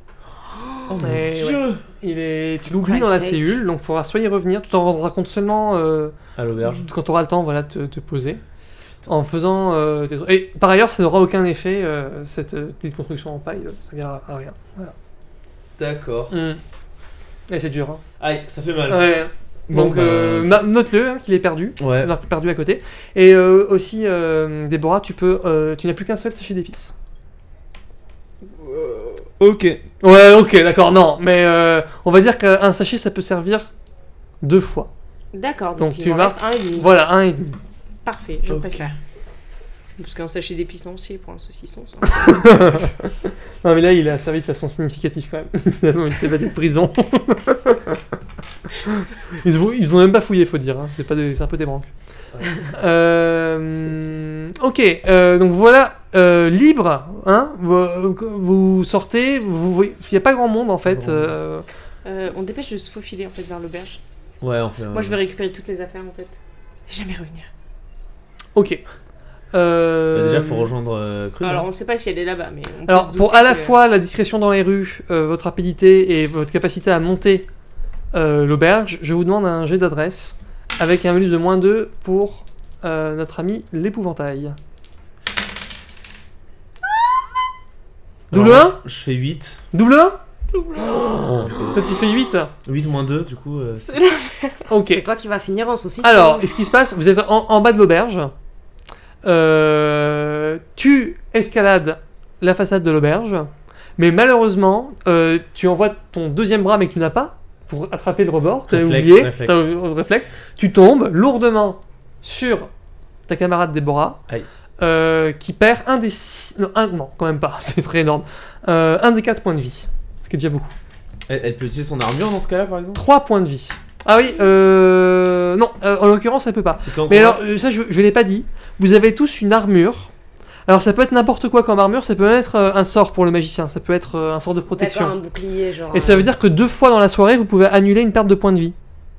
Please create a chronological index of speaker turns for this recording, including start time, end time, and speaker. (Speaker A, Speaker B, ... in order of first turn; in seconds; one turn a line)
Speaker A: 0.5-1.0
Speaker B: 0.9-1.8
Speaker C: 1.0-8.4
Speaker A: 2.7-3.6
Speaker B: 6.4-6.9
Speaker C: 9.1-14.9
Speaker B: 15.8-16.3
Speaker C: 16.3-16.6
Speaker C: 17.5-18.0
Speaker B: 18.2-20.6
Speaker C: 18.9-26.9
Speaker B: 21.8-22.1
Speaker D: 28.5-29.3
Speaker B: 29.4-29.8
Speaker C: 30.0-33.7
Speaker C: 34.4-34.9
Speaker D: 35.3-37.1
Speaker C: 35.8-37.6
Speaker D: 38.0-39.0
Speaker B: 38.5-38.8
Speaker D: 40.0-42.6
Speaker C: 42.3-42.9
Speaker C: 43.6-47.9
Speaker C: 48.8-51.9
Speaker C: 52.5-61.6
Speaker B: 60.8-61.3
Speaker D: 62.0-64.0
Speaker B: 64.4-65.2
Speaker D: 64.9-66.4
Speaker D: 66.9-67.5
Speaker C: 68.5-68.8
Speaker C: 69.5-70.7
Speaker B: 70.1-71.7
Speaker D: 71.4-73.8
Speaker C: 72.9-77.5
Speaker C: 78.1-84.6
Speaker C: 88.3-88.8
Speaker B: 88.3-89.6
Speaker C: 89.7-90.2
Speaker D: 90.5-91.0
Speaker B: 90.8-91.7
Speaker C: 91.7-92.5
Speaker B: 92.7-94.0
Speaker D: 93.8-94.7
Speaker C: 94.7-95.1
Speaker A: 94.9-96.5
Speaker C: 96.0-98.3
Speaker C: 99.2-112.7
Speaker B: 108.7-109.7
Speaker C: 113.3-114.2
Speaker C: 114.8-120.7
Speaker B: 121.3-123.0
Speaker C: 122.9-130.1
Speaker B: 126.8-127.4
Speaker C: 130.7-135.1
Speaker A: 134.7-136.3
Speaker C: 135.9-138.7